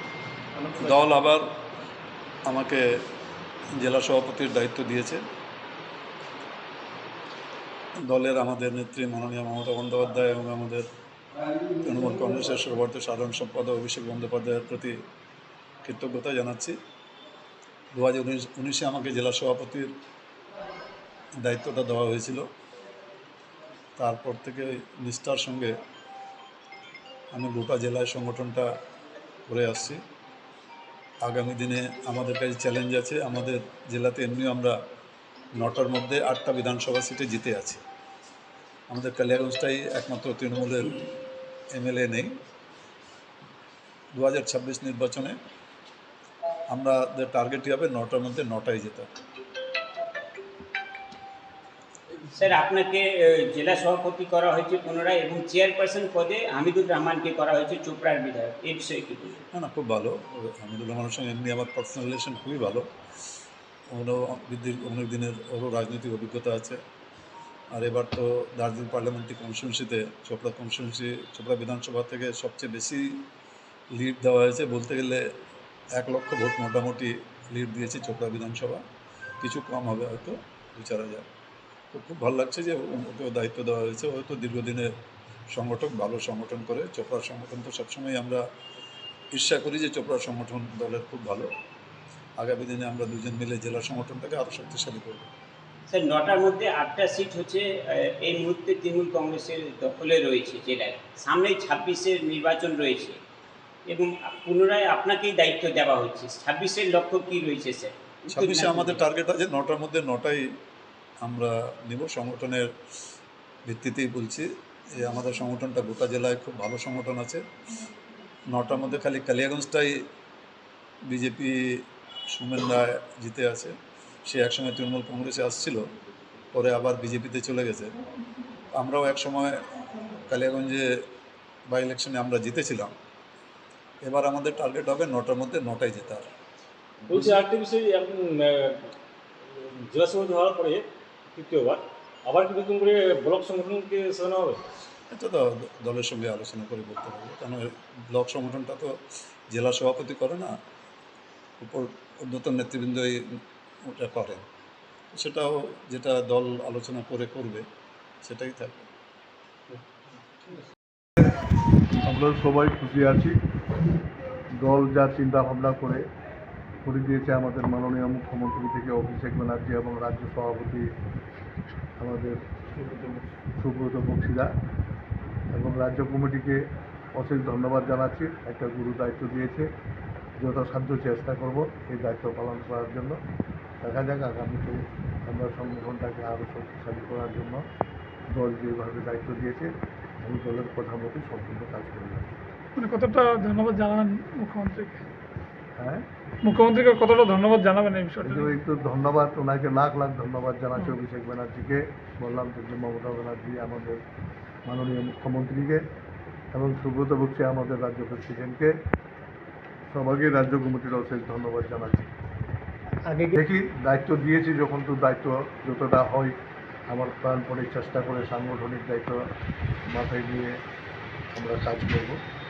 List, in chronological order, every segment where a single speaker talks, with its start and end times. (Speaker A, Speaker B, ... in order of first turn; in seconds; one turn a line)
Speaker A: 0.7-1.5
Speaker A: 2.5-2.9
Speaker A: 3.8-5.2
Speaker A: 8.1-10.8
Speaker A: 11.8-15.0
Speaker A: 15.8-16.8
Speaker A: 17.9-19.9
Speaker A: 21.4-22.4
Speaker A: 24.0-25.7
Speaker A: 27.3-28.7
Speaker A: 29.5-30.0
Speaker A: 31.2-34.7
Speaker A: 35.6-37.8
Speaker A: 38.9-41.0
Speaker A: 41.7-42.3
Speaker A: 44.2-45.4
Speaker A: 46.7-49.1
Speaker B: 52.3-59.4
Speaker A: 59.5-62.9
Speaker A: 63.9-66.8
Speaker A: 67.7-73.2
Speaker A: 73.9-75.2
Speaker A: 76.0-78.8
Speaker A: 79.4-81.3
Speaker A: 81.9-84.9
Speaker A: 85.5-88.4
Speaker A: 89.3-91.5
Speaker A: 92.4-95.3
Speaker B: 95.9-103.2
Speaker B: 103.9-109.0
Speaker A: 108.3-110.5
Speaker A: 111.2-112.7
Speaker A: 113.7-117.4
Speaker A: 118.5-120.0
Speaker A: 121.1-121.5
Speaker A: 122.3-123.8
Speaker A: 124.3-125.8
Speaker A: 126.5-127.9
Speaker A: 128.8-129.6
Speaker A: 130.3-130.9
Speaker A: 131.7-132.9
Speaker A: 134.0-136.2
Speaker C: 137.1-138.9
Speaker C: 139.6-144.6
Speaker A: 145.1-148.9
Speaker A: 149.5-150.5
Speaker A: 151.6-153.2
Speaker A: 153.9-154.4
Speaker A: 155.1-157.6
Speaker A: 158.2-158.8
Speaker D: 162.0-163.3
Speaker D: 164.6-166.0
Speaker D: 166.8-170.9
Speaker D: 172.0-172.4
Speaker D: 173.6-174.5
Speaker D: 175.5-176.6
Speaker D: 177.1-179.7
Speaker D: 180.4-183.2
Speaker D: 183.8-187.6
Speaker D: 188.3-189.7
Speaker D: 190.2-192.3
Speaker E: 192.8-195.0
Speaker E: 196.4-198.6
Speaker D: 198.3-204.0
Speaker D: 204.7-205.8
Speaker D: 206.5-208.7
Speaker D: 209.9-212.1
Speaker D: 213.3-216.3
Speaker D: 216.9-219.2
Speaker D: 219.9-220.5
Speaker D: 221.3-222.2